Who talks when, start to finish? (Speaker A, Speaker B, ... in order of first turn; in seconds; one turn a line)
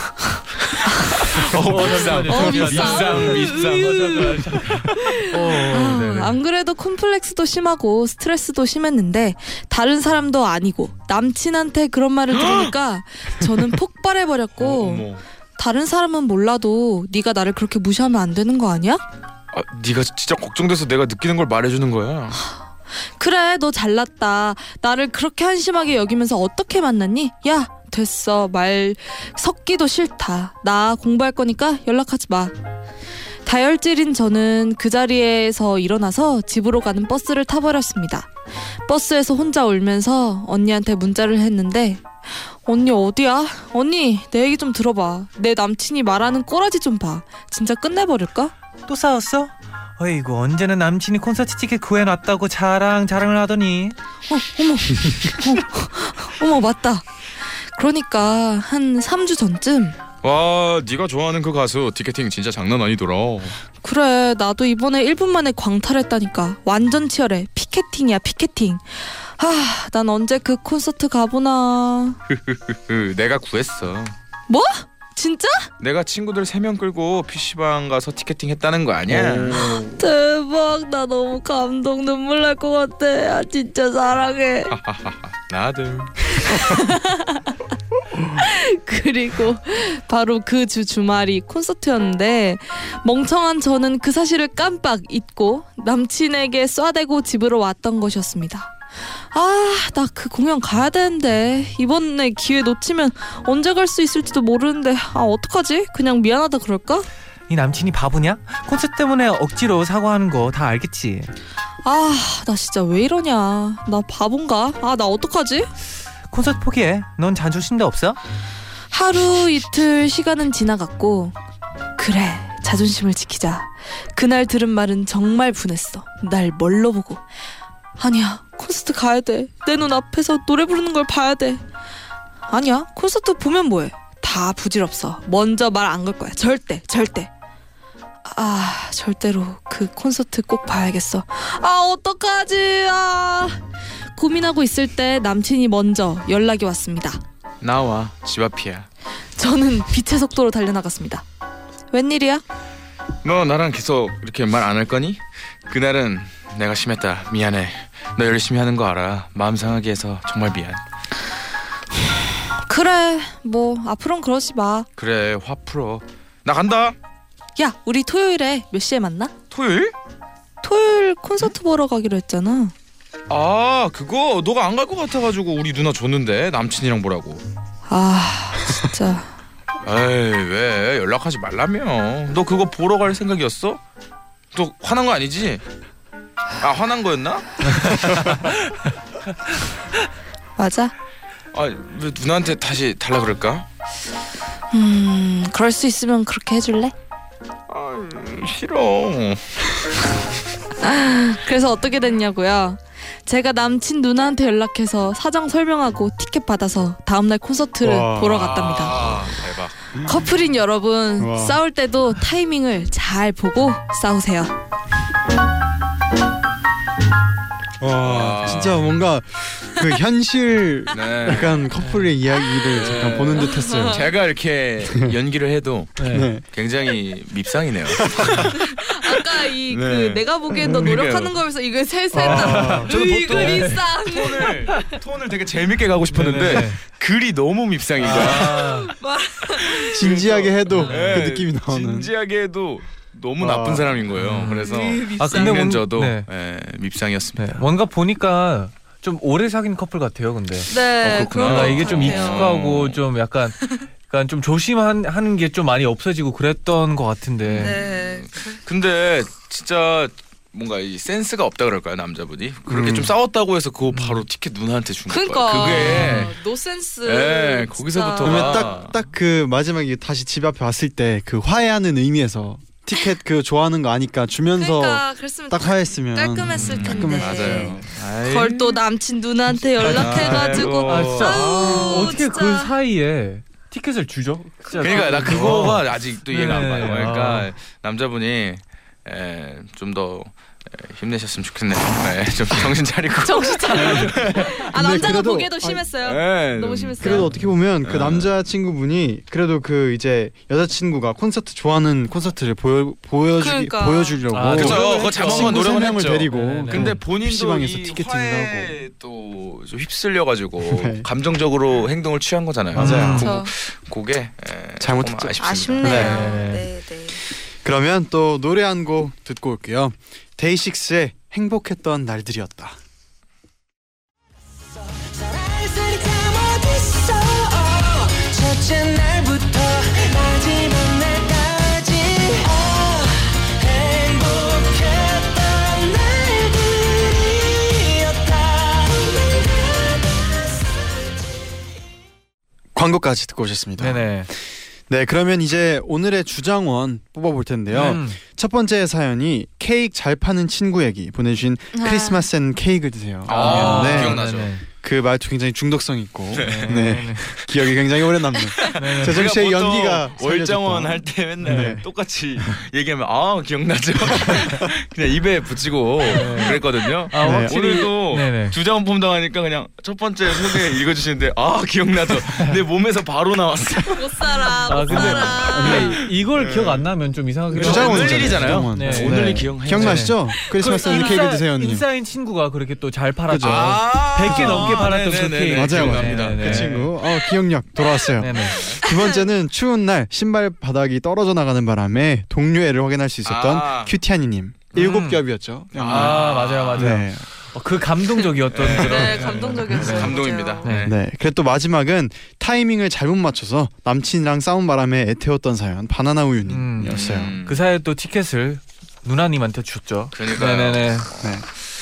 Speaker A: 0.6-5.0
Speaker B: 1.5-6.3
Speaker C: 1.8-4.4
Speaker C: 4.9-19.0
Speaker A: 12.3-12.7
Speaker A: 13.4-13.7
Speaker A: 14.6-15.2
Speaker A: 19.5-22.4
Speaker C: 22.3-32.5
Speaker C: 33.4-38.3
Speaker C: 38.9-48.5
Speaker B: 48.9-54.0
Speaker C: 54.3-60.0
Speaker A: 60.2-63.6
Speaker C: 63.8-72.2
Speaker A: 72.3-74.1
Speaker C: 74.5-75.7
Speaker A: 75.8-79.8
Speaker D: 79.1-80.0
Speaker C: 79.5-84.7
Speaker A: 84.7-86.2
Speaker C: 86.4-87.6
Speaker C: 88.3-98.8
Speaker C: 99.3-107.1
Speaker B: 107.5-111.3
Speaker C: 111.8-115.7
Speaker B: 116.3-118.2
Speaker C: 118.9-121.3
Speaker C: 122.0-127.2
Speaker C: 128.0-131.6
Speaker C: 132.5-137.3
Speaker C: 138.2-143.6
Speaker C: 144.1-147.2
Speaker A: 147.6-148.9
Speaker C: 149.3-151.2
Speaker C: 151.9-152.4
Speaker A: 153.2-160.8
Speaker C: 162.5-164.9
Speaker A: 165.0-166.9
Speaker C: 167.6-169.3
Speaker A: 169.5-169.9
Speaker C: 170.6-172.7
Speaker A: 173.3-177.4
Speaker C: 177.9-179.3
Speaker A: 179.8-183.8
Speaker A: 184.5-185.6
Speaker A: 186.6-188.3
Speaker B: 187.6-188.8
Speaker C: 190.6-190.9
Speaker A: 191.5-193.7
Speaker C: 194.7-196.9
Speaker A: 197.7-199.4
Speaker C: 200.8-209.1
Speaker D: 207.8-208.5
Speaker A: 208.3-209.7
Speaker C: 210.0-214.5
Speaker D: 211.2-211.6
Speaker D: 217.8-224.1
Speaker A: 218.0-218.9
Speaker A: 220.9-221.7
Speaker B: 221.8-222.1
Speaker C: 222.4-224.0
Speaker A: 222.8-228.5
Speaker D: 224.9-225.1
Speaker B: 226.0-226.3
Speaker D: 226.1-226.4
Speaker D: 227.9-228.6
Speaker C: 228.5-234.9
Speaker A: 229.7-231.4
Speaker D: 232.1-233.8
Speaker B: 232.2-233.8
Speaker A: 232.9-238.8
Speaker B: 236.1-236.8
Speaker B: 238.0-238.9
Speaker C: 238.1-240.3
Speaker A: 239.5-247.6
Speaker D: 239.9-242.1
Speaker B: 240.7-241.2
Speaker D: 243.4-244.0
Speaker B: 244.2-246.2
Speaker C: 244.4-245.6
Speaker B: 247.4-250.7
Speaker C: 250.7-252.5
Speaker A: 251.0-253.0
Speaker B: 251.4-253.6
Speaker B: 254.1-257.8
Speaker A: 257.4-266.4
Speaker C: 257.6-258.6
Speaker D: 262.7-263.1
Speaker B: 263.9-264.2
Speaker C: 265.1-268.8
Speaker B: 265.9-266.3
Speaker A: 267.0-268.9
Speaker D: 268.2-277.8
Speaker C: 274.5-282.7
Speaker A: 276.5-278.8
Speaker A: 279.8-282.2
Speaker B: 279.9-287.5
Speaker C: 284.7-285.3
Speaker A: 284.8-294.6
Speaker C: 293.2-297.3
Speaker D: 293.9-295.9
Speaker A: 296.0-297.3
Speaker D: 297.0-308.8
Speaker A: 297.8-298.3
Speaker C: 303.4-305.9
Speaker B: 304.3-305.6
Speaker A: 304.5-316.2
Speaker B: 306.3-307.0
Speaker D: 310.6-311.1
Speaker B: 312.7-313.3
Speaker D: 312.7-313.3
Speaker C: 313.2-313.5
Speaker D: 314.8-316.2
Speaker C: 315.4-317.2
Speaker B: 315.9-316.6
Speaker D: 317.6-322.8
Speaker E: 324.7-341.5
Speaker D: 342.7-354.2
Speaker B: 343.8-344.3
Speaker B: 347.7-348.2
Speaker C: 351.7-352.2
Speaker A: 353.2-354.5
Speaker B: 353.3-354.6
Speaker D: 354.8-361.8
Speaker A: 356.3-356.8
Speaker B: 356.4-357.3
Speaker A: 358.7-376.8
Speaker B: 358.8-359.2
Speaker B: 361.4-361.8
Speaker D: 364.1-364.5
Speaker B: 366.1-368.6
Speaker D: 367.2-367.9
Speaker C: 373.9-376.0
Speaker B: 374.7-386.9
Speaker D: 374.9-376.0
Speaker D: 377.5-381.9
Speaker A: 377.5-380.2
Speaker C: 380.6-381.3
Speaker D: 383.3-384.9
Speaker A: 383.4-386.8
Speaker D: 385.5-397.2
Speaker B: 388.2-388.7
Speaker A: 388.3-388.8
Speaker A: 393.2-393.9
Speaker B: 394.7-395.2
Speaker A: 395.7-397.0
Speaker B: 395.8-400.9
Speaker A: 398.5-400.9
Speaker C: 398.8-400.7
Speaker D: 400.8-407.4
Speaker B: 406.5-411.1
Speaker A: 406.9-407.6
Speaker A: 410.1-411.4
Speaker D: 411.2-411.4